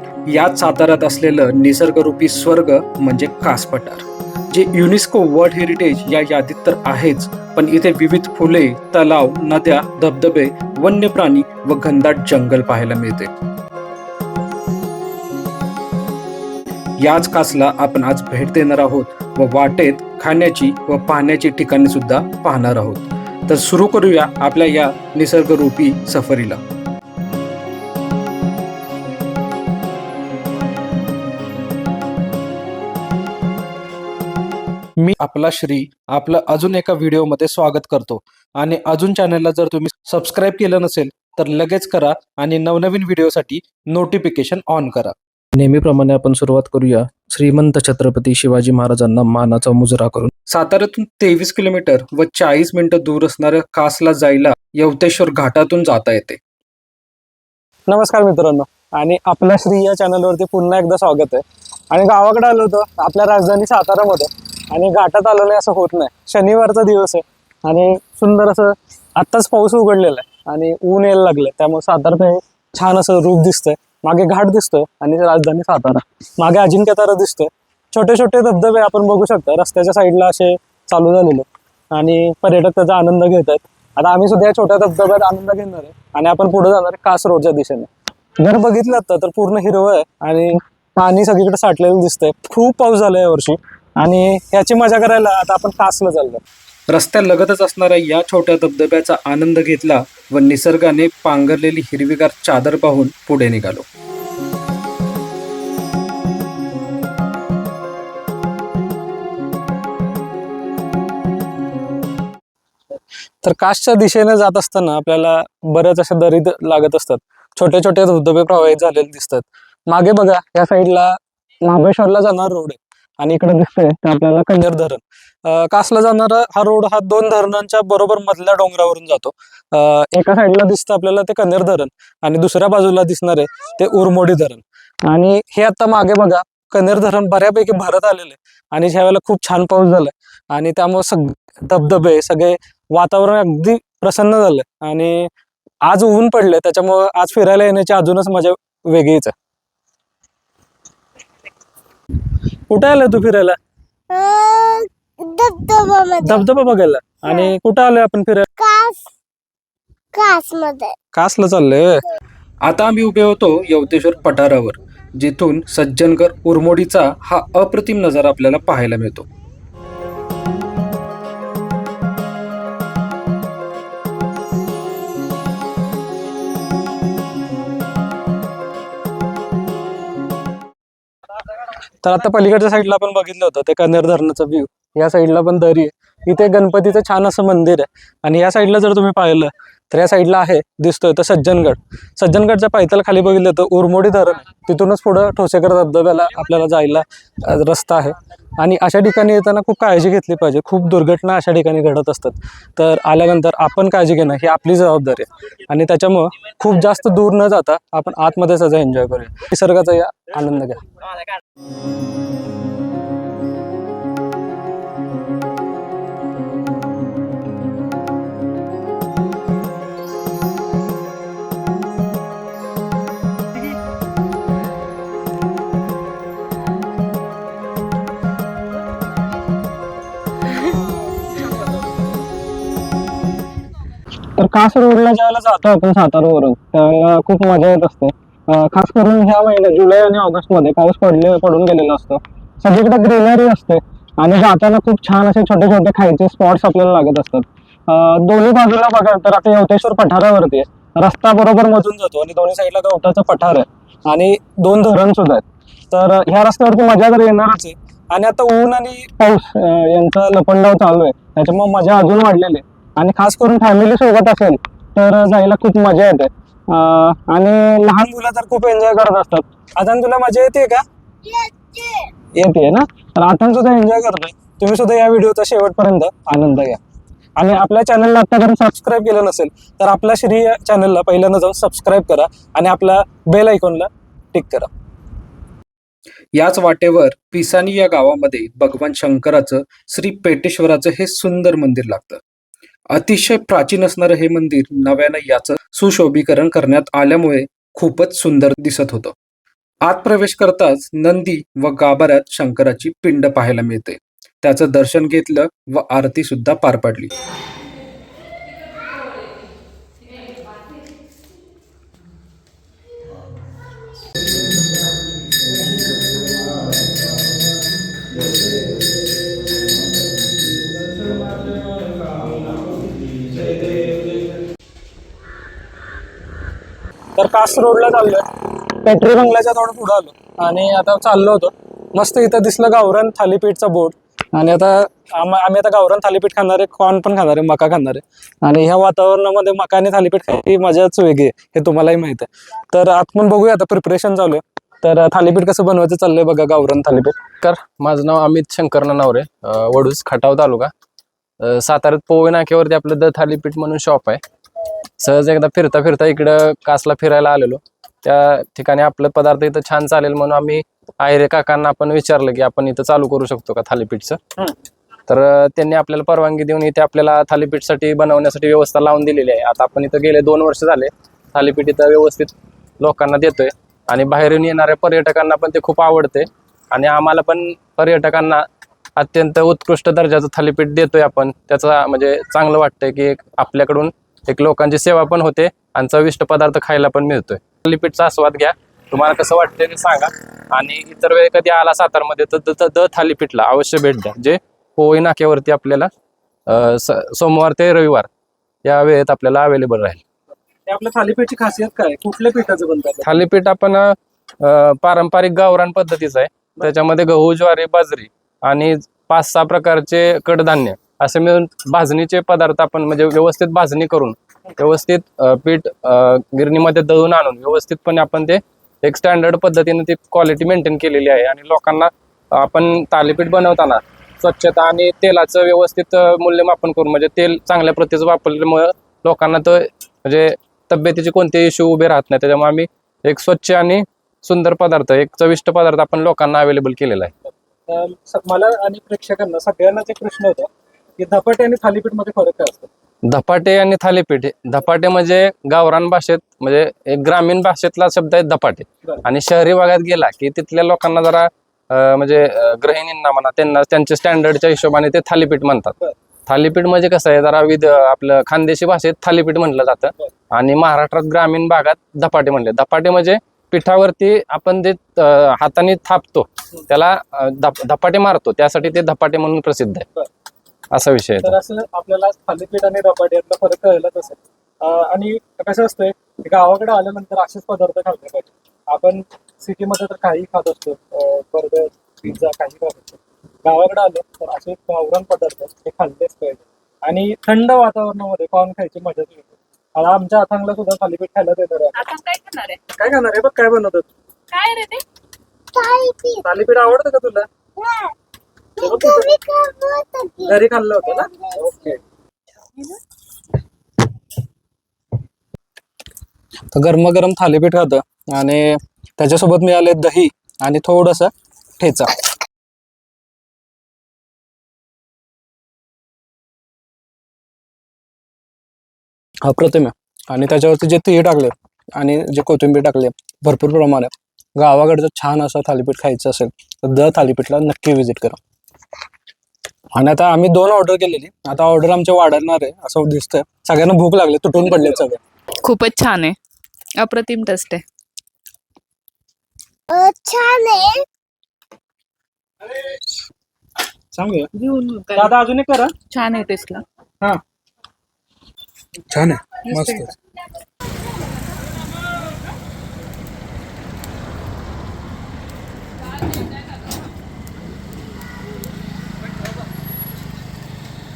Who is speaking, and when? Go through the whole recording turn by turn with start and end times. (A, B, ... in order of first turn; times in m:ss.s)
0:00.3-0:13.3 A
0:17.0-0:26.6 A
0:35.0-0:56.4 A
0:57.9-1:27.9 B
1:28.4-1:36.4 B
1:36.9-1:43.9 A
1:53.4-2:25.3 B
2:25.9-2:29.3 B
2:32.7-2:33.6 B
2:34.1-2:36.5 C
2:36.2-2:38.5 B
2:38.6-2:39.1 C
2:40.1-2:41.0 C
2:41.1-2:42.0 B
2:42.6-2:49.3 A
3:02.0-3:30.8 B
3:54.4-4:30.8 B
4:31.2-4:32.1 C
4:32.4-4:36.8 B
4:37.4-4:44.7 B
4:46.4-4:52.2 A
4:52.9-4:59.2 A
4:59.8-5:07.1 A
5:21.0-5:24.0 D
5:27.2-5:28.3 B
5:28.8-5:47.2 B
5:47.4-5:50.7 D
5:51.4-5:54.2 D
5:55.0-6:04.2 D
6:05.1-6:18.4 D
6:19.0-6:35.9 D
6:36.5-6:38.1 D
6:38.6-6:40.0 D
6:40.7-6:43.2 B
6:43.0-7:17.1 D
7:17.2-7:22.7 B
7:23.1-7:35.8 D
7:36.3-7:49.8 D
7:50.7-7:51.4 D
7:51.2-8:11.9 B
8:11.8-8:12.6 E
8:12.8-8:13.9 B
8:14.3-8:14.8 E
8:15.5-8:16.3 C
8:16.2-8:17.2 B
8:17.6-8:17.9 C
8:18.6-8:21.6 C
8:18.6-8:19.1 B
8:20.2-8:21.8 B
8:26.5-8:32.0 B
8:39.2-8:48.2 B
8:49.8-8:55.0 B
8:55.4-8:56.2 E
8:56.8-8:57.6 E
8:59.7-9:00.8 C
9:03.9-9:04.3 B
9:04.4-9:05.1 E
9:05.0-9:05.7 B
9:05.9-9:06.6 E
9:08.9-9:09.9 A
9:09.5-9:09.9 E